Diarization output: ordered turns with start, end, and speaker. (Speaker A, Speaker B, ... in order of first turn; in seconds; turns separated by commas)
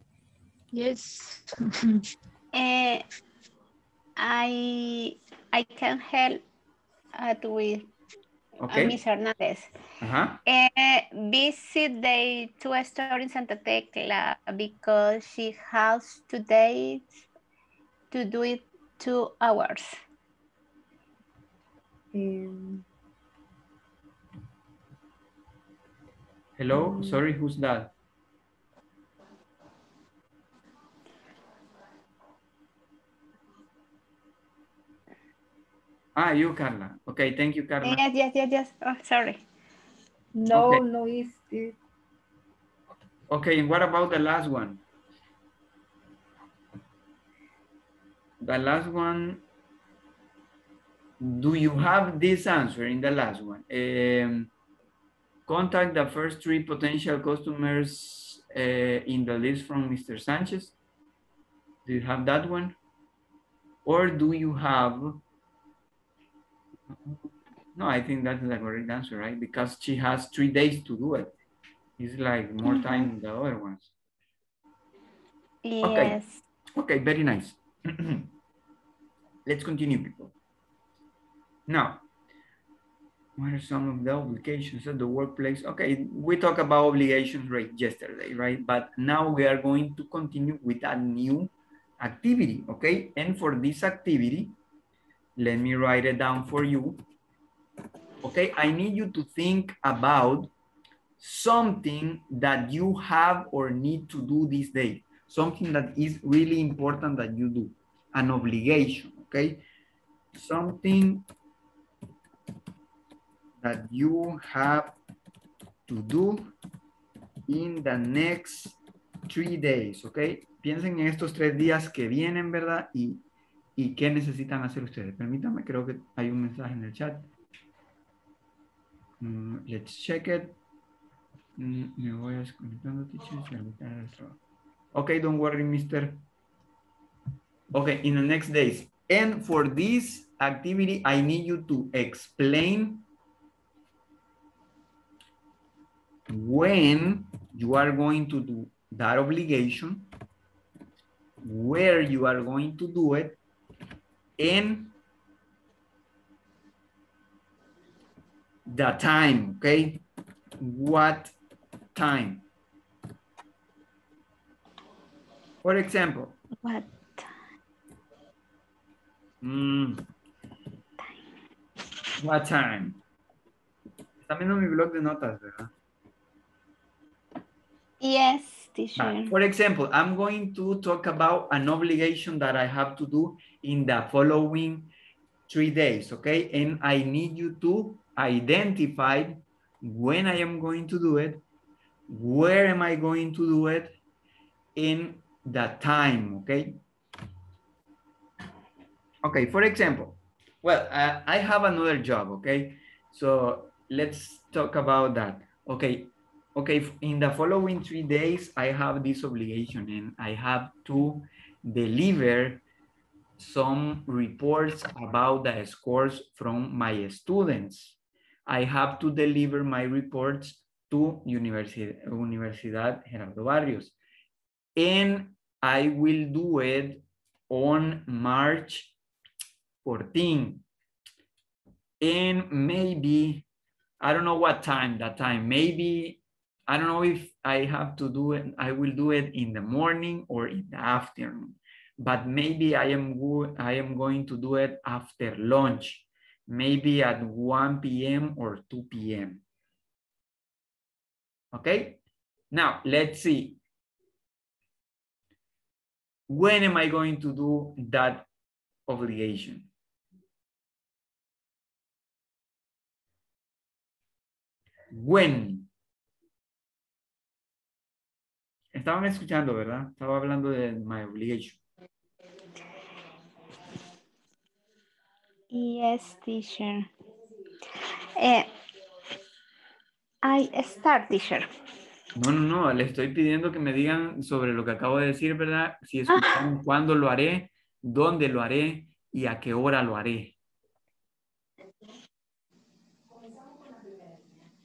Speaker A: 2.5-3.0, Speaker A: 4.2-6.4, Speaker A: 7.2-7.9, Speaker B: 8.6-9.0, Speaker A: 8.7-9.7, Speaker B: 10.0-10.4, Speaker A: 10.5-17.2, Speaker A: 18.1-20.0, Speaker C: 22.1-22.8, Speaker B: 26.6-27.9, Speaker C: 26.7-27.2, Speaker B: 36.2-38.0, Speaker A: 37.8-39.4, Speaker C: 40.4-41.8, Speaker B: 40.5-40.8, Speaker B: 43.3-44.8, Speaker B: 48.4-49.4, Speaker B: 51.2-54.5, Speaker B: 55.5-60.8, Speaker B: 61.9-62.8, Speaker B: 63.9-65.2, Speaker B: 66.9-71.3, Speaker B: 72.0-73.9, Speaker A: 72.6-73.1, Speaker A: 75.7-76.4, Speaker B: 75.8-76.2, Speaker B: 76.8-78.3, Speaker B: 79.5-80.3, Speaker B: 81.7-82.1, Speaker B: 83.4-94.6, Speaker B: 95.4-97.0, Speaker B: 98.2-100.5, Speaker B: 101.2-109.7, Speaker B: 110.3-111.3, Speaker B: 113.6-115.0, Speaker B: 115.9-116.5, Speaker B: 117.5-123.2, Speaker B: 123.8-127.3, Speaker B: 129.2-130.6, Speaker B: 131.6-134.4, Speaker B: 134.9-136.2, Speaker B: 137.7-143.1, Speaker B: 146.3-150.1, Speaker B: 151.4-153.4, Speaker B: 154.4-154.9, Speaker B: 158.7-160.0, Speaker B: 160.6-161.3, Speaker B: 161.9-162.4, Speaker B: 165.6-166.4, Speaker A: 166.6-167.3, Speaker B: 169.4-170.0, Speaker B: 172.2-173.0, Speaker B: 174.2-175.7, Speaker A: 178.0-179.3, Speaker B: 179.0-184.9, Speaker B: 185.5-191.4, Speaker B: 192.1-193.9, Speaker B: 194.8-196.8, Speaker B: 199.2-212.6, Speaker B: 213.4-223.9, Speaker B: 224.8-228.9, Speaker B: 229.8-230.6, Speaker B: 232.0-233.4, Speaker B: 234.0-249.4, Speaker B: 251.5-252.0, Speaker B: 252.5-253.6, Speaker B: 256.3-258.3, Speaker B: 258.9-259.7, Speaker B: 264.9-265.7, Speaker B: 268.7-271.6, Speaker A: 275.5-276.9, Speaker A: 278.2-278.5, Speaker A: 280.2-281.5, Speaker B: 282.1-290.3, Speaker A: 286.1-286.4